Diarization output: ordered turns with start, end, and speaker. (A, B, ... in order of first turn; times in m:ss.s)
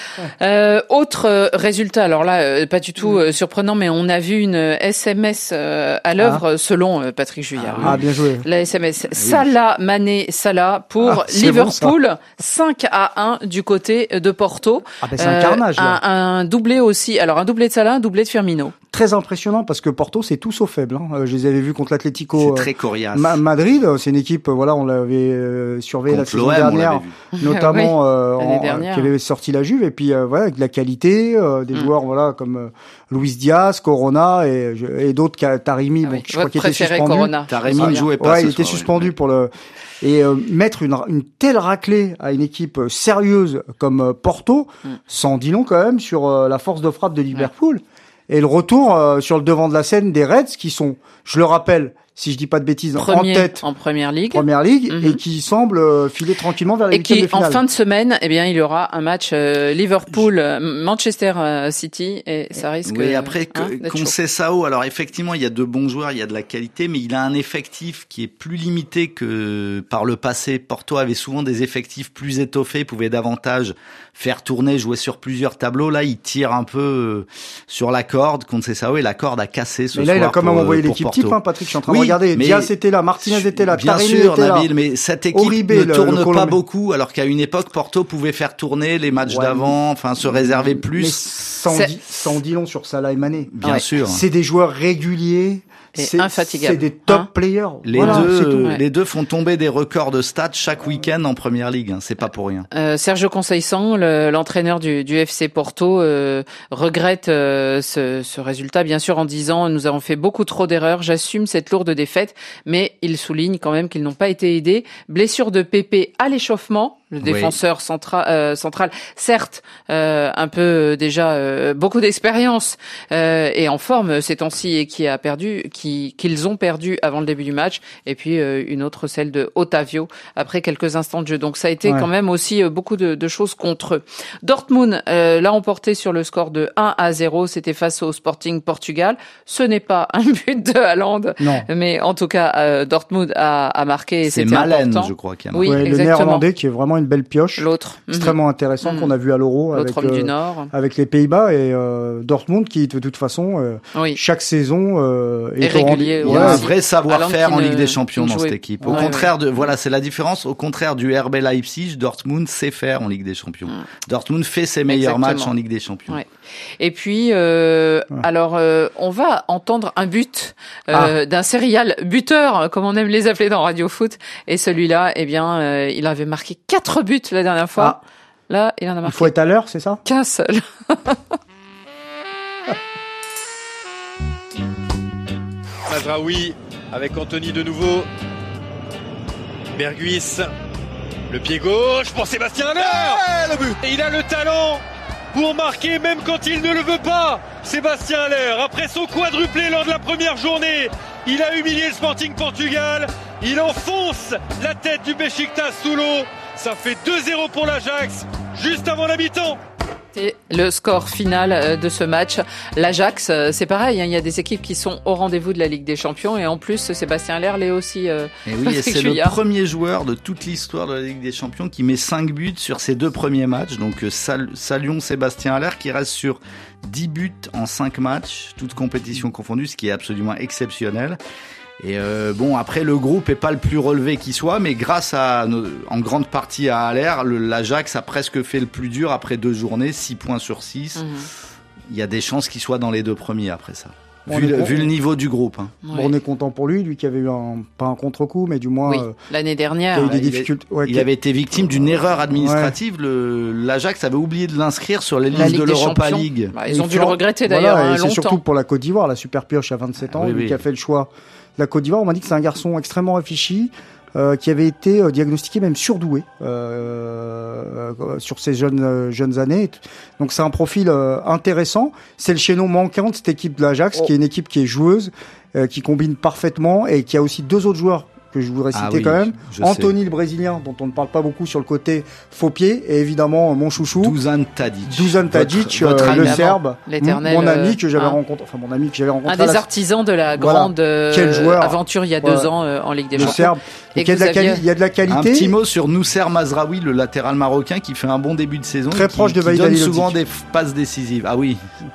0:00.4-0:18.7 A
0:06.2-0:06.4 B
0:07.6-0:08.0 C
0:07.8-0:08.4 B
0:09.2-0:09.5 C
0:11.0-0:11.9 B
0:15.0-0:16.0 B
0:18.9-0:53.6 B
0:22.4-0:23.4 C
0:26.1-0:27.1 C
0:27.4-0:29.1 A
0:36.0-0:38.0 A
0:37.5-0:39.1 C
0:53.0-0:55.2 A
0:54.3-0:57.6 B
0:56.9-1:04.1 A
1:02.8-1:22.7 C
1:19.9-1:24.7 B
1:23.2-1:31.2 C
1:25.3-1:26.6 B
1:29.2-1:38.7 B
1:31.7-1:32.3 A
1:33.5-1:34.2 C
1:36.0-1:37.3 A
1:37.8-1:42.7 C
1:38.0-1:38.8 A
1:42.7-2:26.4 A
1:57.2-1:57.5 C
2:21.4-2:21.7 B
2:24.3-2:25.8 C
2:25.6-2:36.6 B
2:27.6-2:29.1 A
2:29.7-2:30.7 A
2:33.9-2:34.2 A
2:35.6-2:39.3 A
2:36.2-2:46.2 C
2:38.8-2:39.2 B
2:44.9-2:45.5 A
2:46.8-2:58.0 A
2:58.5-2:59.3 A
2:59.0-3:00.0 B
3:00.0-3:01.2 A
3:05.9-3:08.1 D
3:09.8-3:10.5 D
3:11.3-3:14.8 D
3:15.3-3:29.6 D
3:30.1-3:39.4 A
3:38.4-3:51.2 C
3:51.8-4:01.0 C
4:01.0-4:01.3 A
4:01.9-4:05.8 C
4:04.3-4:04.9 B
4:05.8-4:06.1 A
4:05.9-4:09.1 B
4:08.8-4:10.1 A
4:09.9-4:11.1 B
4:10.0-4:16.5 C
4:12.3-4:12.8 B
4:15.3-4:18.4 A
4:16.7-4:44.2 B
4:20.1-4:20.6 C
4:38.7-4:39.9 C
4:44.0-4:46.5 C
4:44.9-4:49.7 B
4:46.0-4:48.2 A
4:49.2-4:54.6 A
4:50.4-4:52.5 B
4:53.1-4:55.5 B
4:55.1-5:01.6 C
4:58.9-5:00.2 B